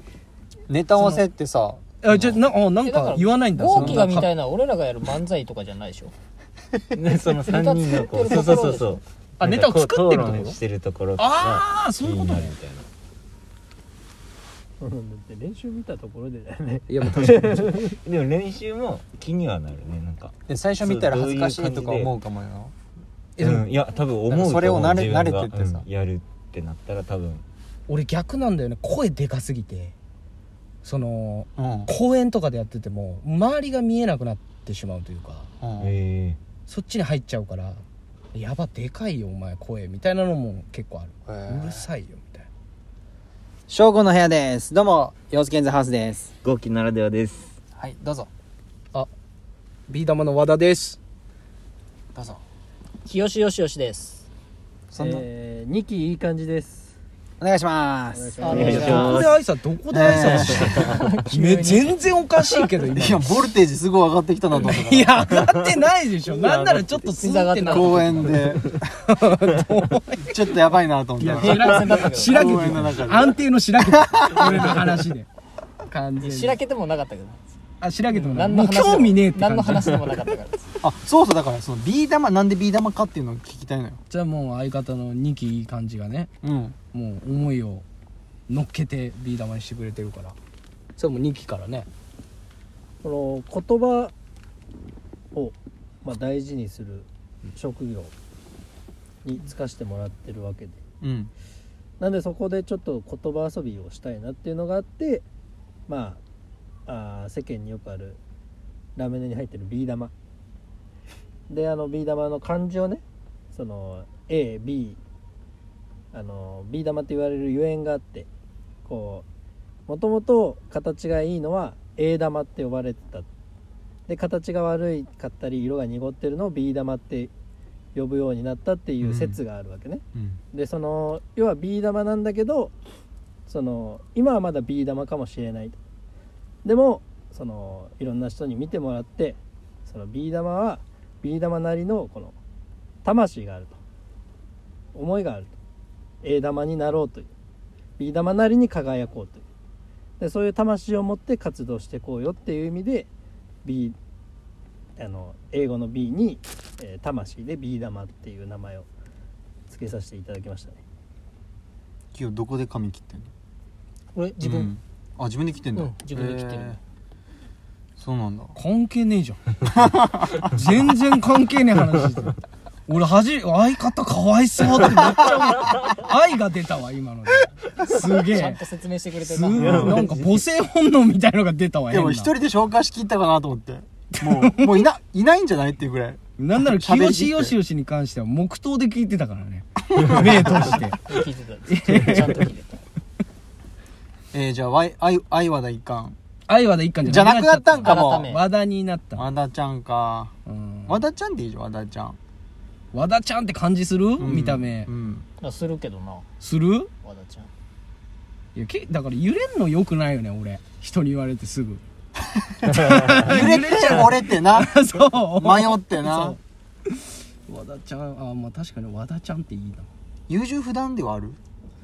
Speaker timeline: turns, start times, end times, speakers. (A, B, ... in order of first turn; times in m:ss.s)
0:00.7-0:01.8 A
0:01.0-0:01.2 B
0:02.0-0:04.3 B
0:02.8-0:06.1 C
0:03.7-0:04.0 A
0:06.9-0:12.9 D
0:07.3-0:09.0 C
0:09.4-0:10.6 B
0:11.2-0:12.5 B
0:14.8-0:16.8 E
0:16.9-0:17.9 B
0:17.2-0:22.1 D
0:20.5-0:22.7 A
0:23.4-0:23.7 B
0:23.4-0:27.4 D
0:24.3-0:25.9 A
0:27.9-0:29.9 B
0:30.8-0:35.5 B
0:31.6-0:31.9 A
0:35.6-0:35.9 A
0:35.8-0:36.4 D
0:36.7-0:37.8 B
0:38.3-0:42.5 B
0:41.3-0:41.9 A
0:43.7-0:46.3 A
0:46.4-0:47.5 D
0:47.8-0:48.3 A
0:49.9-0:51.0 B
0:52.2-0:52.4 A
0:53.0-0:54.3 C
0:54.9-0:55.2 A
0:55.0-0:56.9 E
0:57.4-0:59.1 A
0:58.1-0:59.2 E
0:58.4-0:59.3 C
0:58.5-0:59.4 D
0:58.5-1:03.2 B
0:59.9-1:00.9 A
1:00.1-1:01.1 D
1:00.7-1:02.0 C
1:03.0-1:05.3 A
1:04.6-1:08.2 B
1:05.3-1:05.7 D
1:06.3-1:07.2 D
1:07.2-1:08.4 C
1:07.7-1:08.7 A
1:08.2-1:08.8 D
1:09.0-1:10.4 B
1:10.3-1:14.8 A
1:11.2-1:15.3 B
1:11.4-1:12.4 C
1:15.9-1:16.6 B
1:16.2-1:17.4 C
1:17.8-1:20.0 B
1:18.1-1:20.7 C
1:20.8-1:24.0 A
1:24.1-1:26.3 B
1:26.4-1:26.8 A
1:26.9-1:27.8 B
1:28.5-1:30.4 B
1:31.0-1:31.9 B
1:33.0-1:34.1 E
1:35.3-1:38.1 E
1:39.2-1:40.8 E
1:41.0-1:41.3 A
1:42.0-1:45.2 E
1:45.9-1:46.2 E
1:46.9-1:48.2 E
1:49.0-1:50.1 E
1:51.5-1:55.0 E
1:56.1-1:58.3 E
1:58.9-1:59.2 E
1:59.9-2:03.3 E
2:04.1-2:07.3 E
2:07.9-2:12.8 E
2:09.0-2:09.4 A
2:10.1-2:10.4 A
2:13.5-2:15.8 E
2:16.6-2:22.4 E
2:23.0-2:23.8 E
2:24.9-2:25.6 E
2:26.2-2:27.3 E
2:28.0-2:29.4 E
2:30.2-2:33.1 E
2:33.6-2:34.0 E
2:35.0-2:38.9 E
2:39.7-2:40.8 E
2:42.1-2:43.3 A
2:44.1-2:44.7 C
2:44.4-2:46.8 A
2:45.8-2:46.8 C
2:48.0-2:48.6 A
2:48.6-2:49.4 B
2:49.7-2:50.4 A
2:50.4-2:52.4 B
2:52.9-2:58.6 B
2:58.3-3:00.0 C
2:59.2-3:02.3 B
2:59.6-3:00.1 A
3:01.9-3:07.6 A
3:04.2-3:04.8 B
3:06.4-3:11.1 B
3:10.0-3:10.7 A
3:11.1-3:12.8 C
3:11.7-3:12.4 B
3:14.3-3:16.2 A
3:16.5-3:19.3 B
3:17.0-3:18.3 A
3:17.8-3:18.4 C
3:19.2-3:20.3 A
3:20.5-3:21.0 B
3:20.9-3:22.2 A
3:22.9-3:24.9 B
3:24.2-3:25.3 A
3:25.4-3:26.2 C
3:26.4-3:26.9 B
3:27.0-3:27.5 C
3:28.6-3:31.8 B
3:32.4-3:36.4 A
3:32.7-3:39.9 B
3:40.3-3:41.4 A